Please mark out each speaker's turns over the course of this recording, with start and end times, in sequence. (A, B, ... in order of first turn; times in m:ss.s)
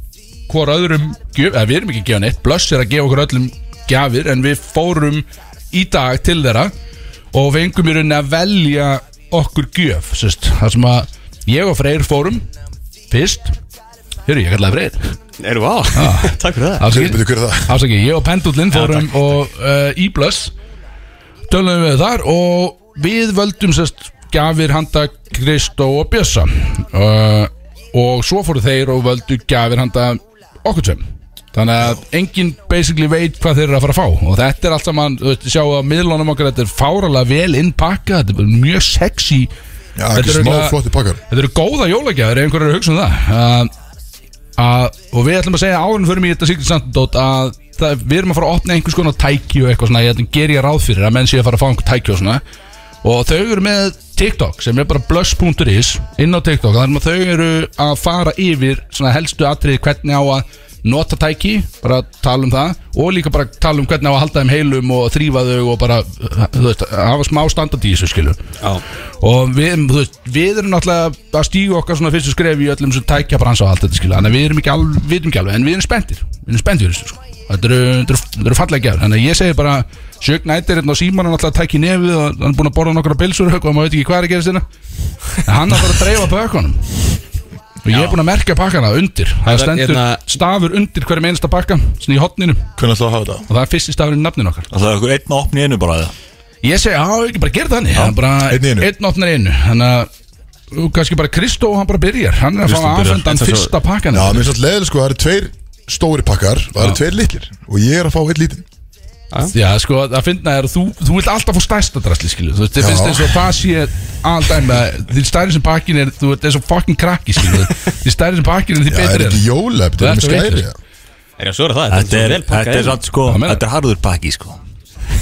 0:00.5-0:06.7 A
0:07.3-0:12.4 A
0:13.1-0:13.5 A
0:14.2-0:15.1 A
0:15.4-0:16.8 B
0:15.9-0:20.5 A
0:16.8-0:17.8 C
0:18.7-0:19.2 B
0:21.5-0:39.5 A
0:40.0-0:41.2 C
0:40.1-0:43.7 A
0:44.6-0:52.4 A
0:53.0-1:08.4 A
1:09.2-1:24.6 A
1:25.4-1:27.0 A
1:27.8-1:32.7 A
1:27.9-1:28.2 B
1:29.5-1:30.2 B
1:32.8-1:33.4 C
1:33.5-1:34.7 A
1:34.7-1:36.1 D
1:36.6-1:40.1 A
1:38.4-1:38.9 C
1:40.7-1:44.5 A
1:42.6-1:43.7 D
1:44.1-1:48.6 C
1:49.5-1:59.4 A
1:52.8-1:53.4 C
1:58.9-2:00.7 C
2:00.0-2:00.6 A
2:01.4-2:03.0 B
2:01.9-2:04.6 D
2:03.2-2:03.6 A